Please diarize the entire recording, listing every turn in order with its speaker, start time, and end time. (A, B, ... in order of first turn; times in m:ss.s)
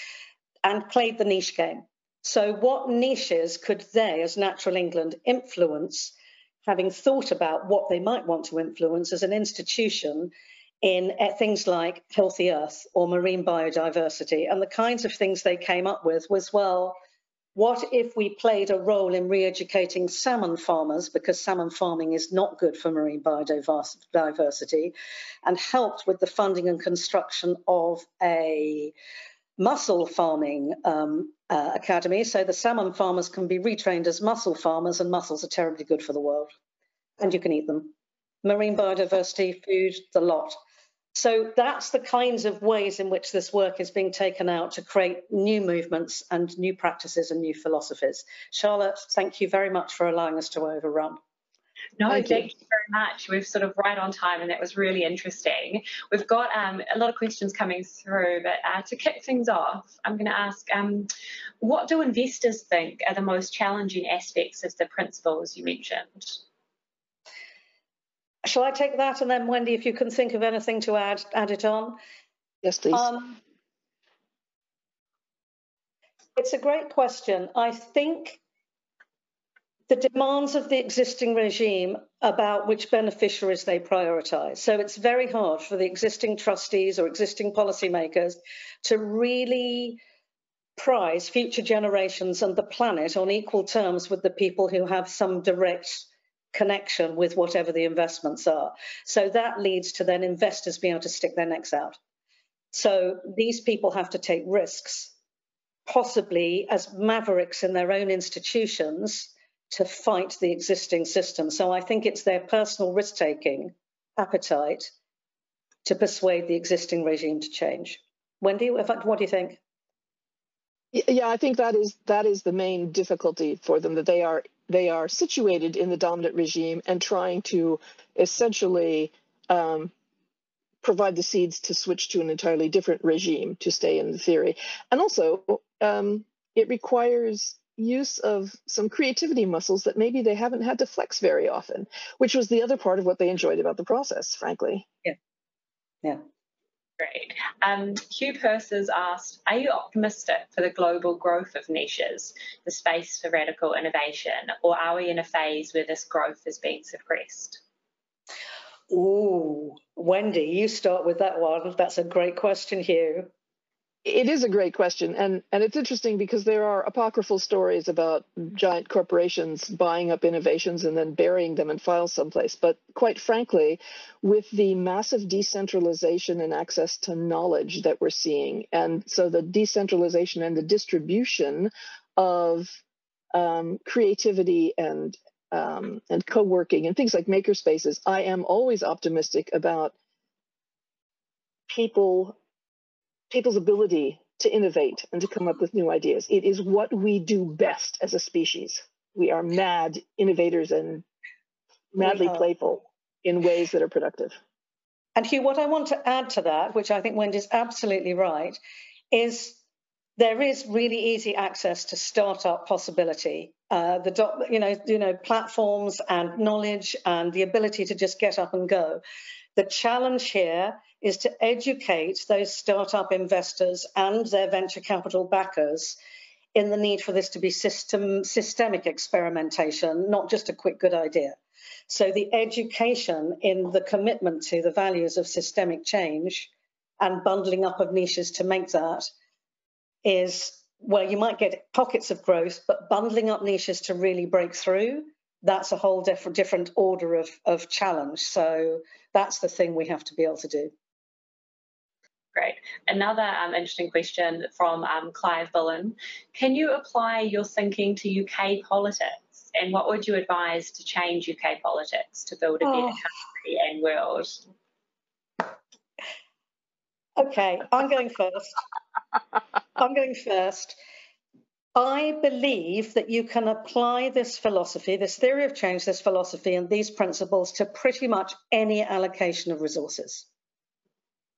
0:00.6-0:06.1 A
0:06.6-0:17.0 A
0:17.5-0:24.9 A
0:25.4-0:28.9 A
0:29.6-0:36.5 A
0:37.2-0:37.9 A
0:38.4-0:40.6 A
0:41.1-0:51.2 A
0:52.0-1:06.4 B
0:52.1-0:52.4 C
1:08.4-1:12.0 A
1:12.6-1:13.1 C
1:12.9-1:13.4 A
1:16.4-1:18.4 A
1:19.9-1:30.0 A
1:30.8-1:42.0 A
1:42.7-1:45.1 A
1:45.9-1:54.9 A
1:55.8-1:59.6 A
2:00.9-2:09.9 C
2:10.8-2:24.8 C
2:27.0-2:37.6 B
2:38.9-2:43.3 A
2:44.0-3:02.8 C
3:03.3-3:09.9 C
3:11.7-3:12.4 C
3:13.3-3:21.0 C
3:21.9-3:24.3 C
3:25.2-3:28.6 A
3:29.1-3:29.6 A
3:30.2-3:39.0 A
3:39.6-3:46.0 A
3:46.5-3:59.1 A
4:00.0-4:10.7 A
4:12.3-4:24.4 B
4:27.2-4:28.6 A
4:29.8-4:30.8 A
4:31.7-4:40.3 A